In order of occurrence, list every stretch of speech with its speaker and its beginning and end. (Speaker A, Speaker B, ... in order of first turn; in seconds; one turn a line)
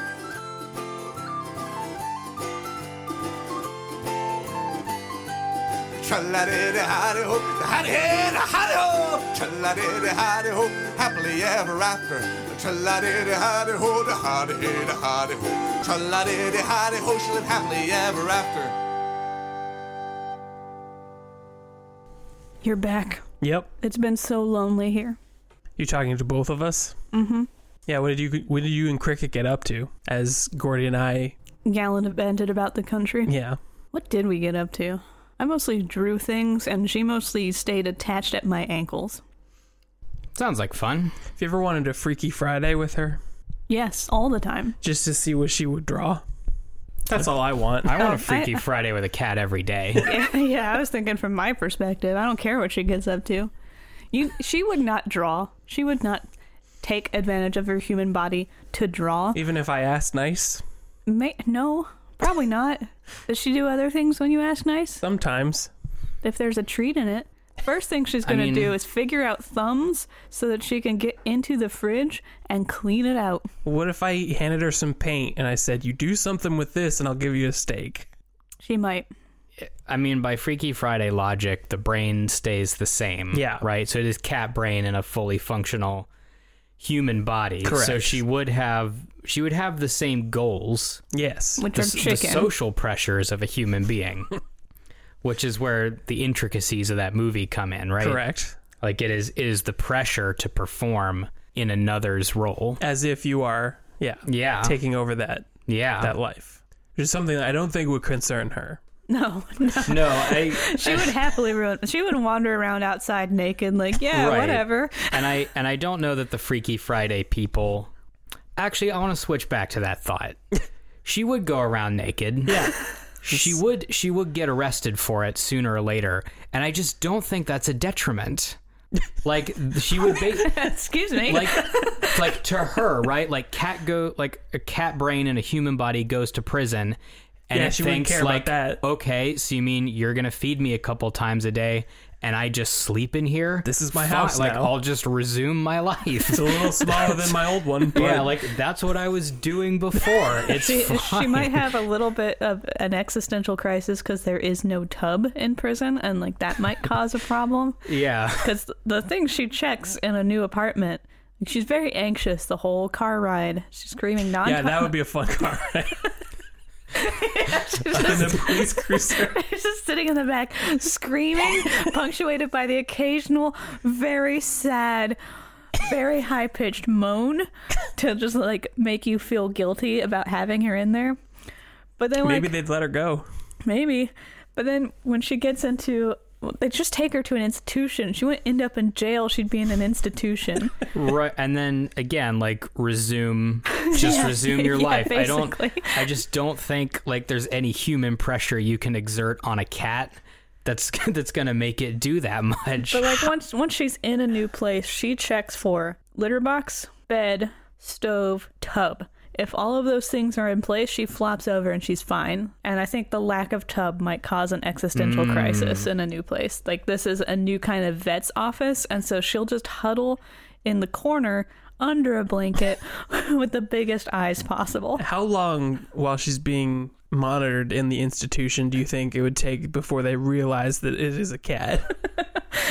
Speaker A: 6.0-18.8
Speaker B: 22.6-23.2
Speaker C: 23.4-23.7
Speaker B: 23.8-25.2
Speaker C: 25.8-26.9
Speaker B: 27.1-27.5
Speaker C: 27.9-31.4
Speaker B: 31.6-33.3
Speaker C: 33.3-33.6
Speaker B: 33.9-39.2
Speaker D: 40.4-41.2
Speaker C: 41.4-43.2
Speaker B: 43.7-44.8
Speaker C: 44.8-46.2
Speaker D: 47.1-50.1
Speaker C: 47.1-48.0
Speaker B: 48.0-48.6
Speaker B: 50.0-53.5
Speaker B: 54.1-56.2
Speaker B: 56.8-59.4
Speaker C: 59.3-60.6
Speaker B: 61.1-65.0
Speaker C: 65.0-65.7
Speaker B: 66.2-73.5
Speaker D: 68.2-68.8
Speaker C: 73.7-78.1
Speaker B: 78.6-79.1
Speaker D: 79.6-86.1
Speaker C: 83.3-83.7
Speaker D: 86.8-91.0
Speaker C: 87.6-88.2
Speaker C: 91.1-91.8
Speaker B: 91.6-92.5
Speaker D: 91.8-94.3
Speaker D: 95.2-98.2
Speaker C: 98.0-98.6
Speaker D: 98.8-102.8
Speaker C: 102.8-108.8
Speaker D: 104.3-104.8
Speaker D: 105.7-106.2
Speaker B: 109.1-115.3
Speaker D: 109.9-111.2
Speaker D: 114.1-117.9
Speaker D: 118.6-120.4
Speaker D: 121.0-128.6
Speaker C: 122.5-122.8
Speaker D: 129.2-137.0
Speaker B: 130.4-132.2
Speaker D: 137.5-147.3
Speaker C: 137.5-138.8
Speaker C: 143.7-144.8
Speaker C: 146.3-148.3
Speaker D: 147.9-151.6
Speaker B: 150.5-157.8
Speaker D: 157.9-158.5
Speaker B: 158.4-164.9
Speaker C: 164.4-166.1
Speaker B: 166.9-175.2
Speaker C: 167.9-169.4
Speaker B: 175.8-181.2
Speaker B: 182.0-182.5
Speaker C: 182.2-183.3
Speaker B: 183.6-190.8
Speaker D: 190.9-203.3
Speaker B: 193.7-196.1
Speaker B: 202.9-225.0
Speaker D: 214.9-215.9
Speaker C: 225.0-232.0